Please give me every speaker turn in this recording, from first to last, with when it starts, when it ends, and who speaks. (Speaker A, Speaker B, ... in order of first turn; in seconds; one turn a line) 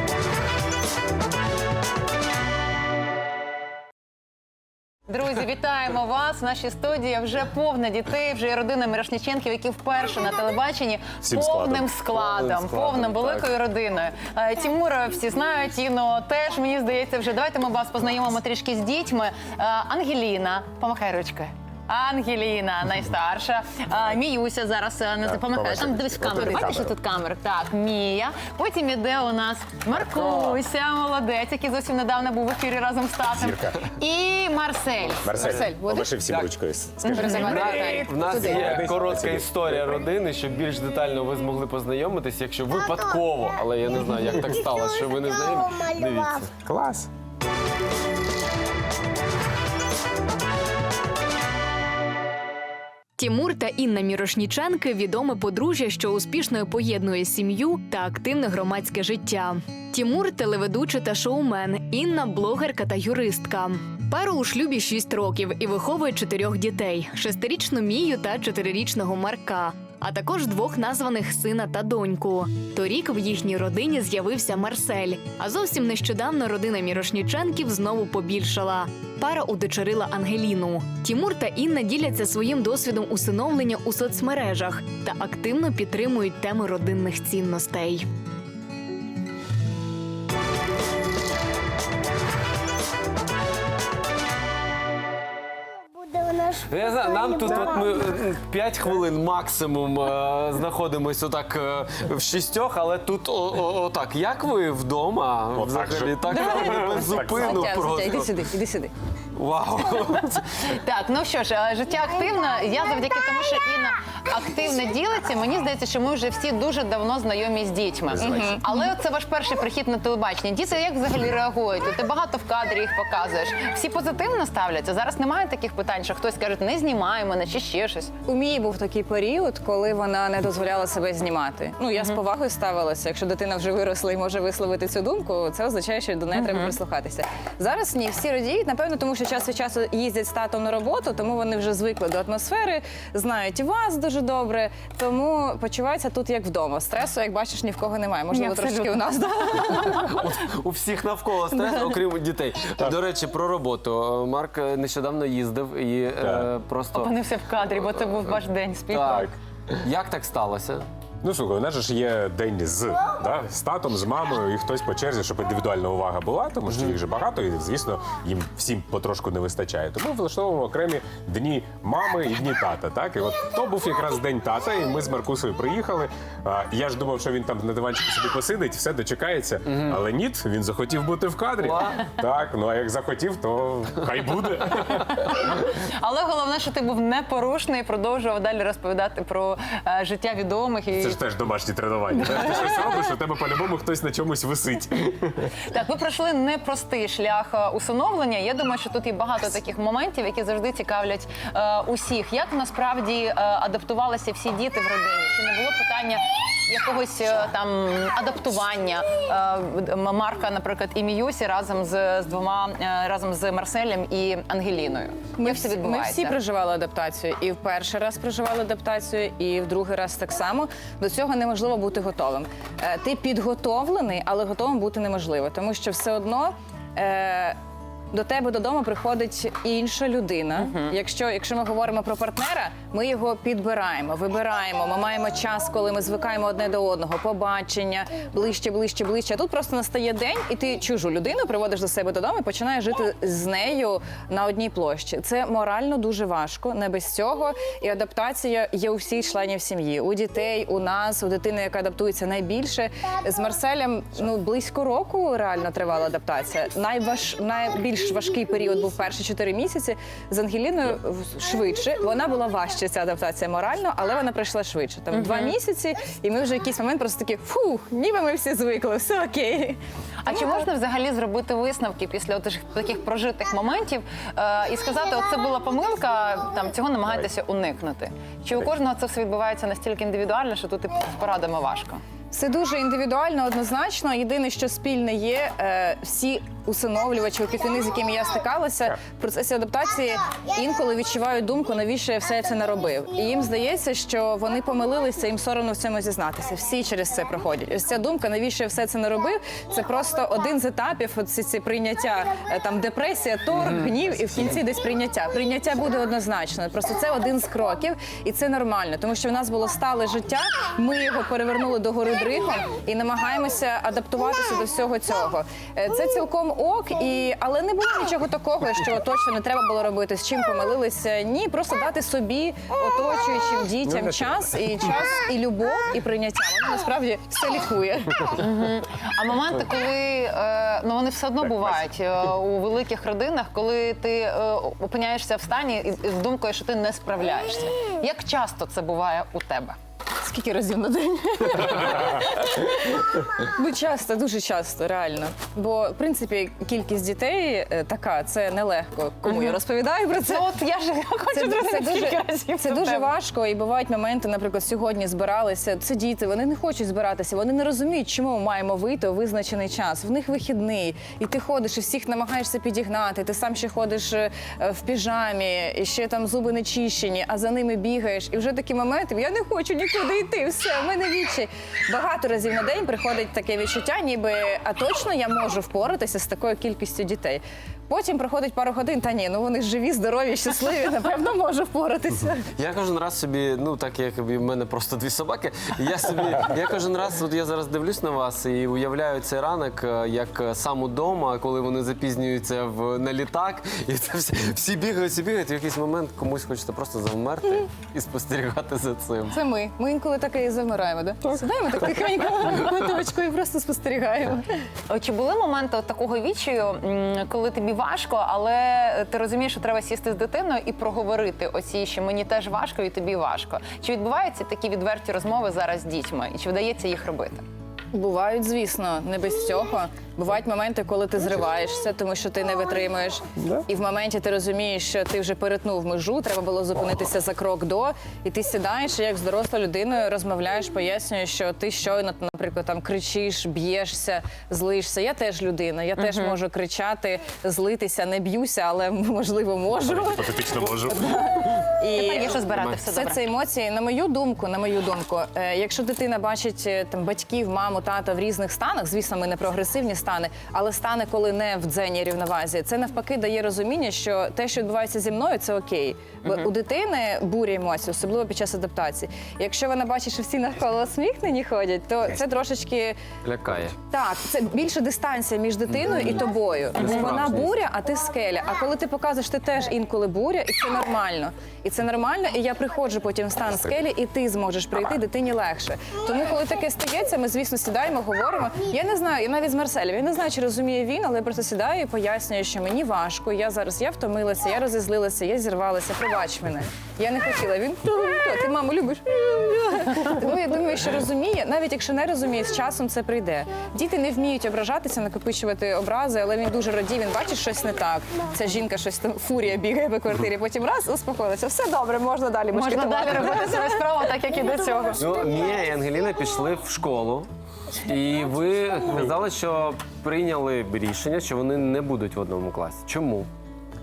Speaker A: 5.1-35.3
Speaker B: 11.2-11.9
Speaker C: 12.1-13.5
Speaker B: 25.2-26.9
Speaker B: 30.0-30.6
Speaker B: 33.3-33.8
Speaker B: 35.2-40.1
Speaker C: 35.3-35.6
Speaker D: 35.4-36.1
Speaker C: 36.2-36.5
Speaker A: 37.0-38.0
Speaker D: 37.1-38.9
Speaker C: 37.1-46.5
Speaker B: 46.6-47.1
Speaker E: 53.2-88.1
Speaker C: 96.5-108.4
Speaker B: 97.5-97.8
Speaker B: 105.5-107.7
Speaker D: 106.3-108.9
Speaker C: 109.3-110.5
Speaker A: 110.2-128.1
Speaker B: 118.2-118.5
Speaker D: 118.2-118.7
Speaker D: 128.3-150.2
Speaker A: 136.4-136.7
Speaker A: 148.3-149.1
Speaker A: 149.6-150.0
Speaker C: 150.1-157.1
Speaker D: 151.5-152.0
Speaker B: 156.2-156.5
Speaker A: 156.9-159.3
Speaker C: 158.9-160.9
Speaker B: 161.2-185.3
Speaker C: 181.6-182.0
Speaker A: 185.1-191.2
Speaker B: 191.0-195.5
Speaker A: 195.7-216.4
Speaker D: 215.4-227.6
Speaker D: 228.1-269.8
Speaker A: 230.6-230.9
Speaker A: 265.1-265.5
Speaker A: 270.2-282.0
Speaker D: 282.3-328.4
Speaker B: 323.9-324.5
Speaker A: 328.4-339.8
Speaker B: 331.4-331.8
Speaker D: 340.2-350.5
Speaker A: 349.2-349.6
Speaker A: 350.2-353.1
Speaker D: 351.3-382.5
Speaker C: 382.6-399.4
Speaker D: 399.3-404.5
Speaker A: 404.9-417.4
Speaker D: 417.9-463.0
Speaker B: 423.4-423.6
Speaker A: 436.0-436.4
Speaker B: 439.9-441.3
Speaker A: 441.9-443.2
Speaker C: 442.5-442.9
Speaker C: 463.2-463.8
Speaker D: 463.9-503.8
Speaker C: 465.8-466.1
Speaker C: 466.8-467.6
Speaker A: 502.5-505.1
Speaker C: 505.0-513.3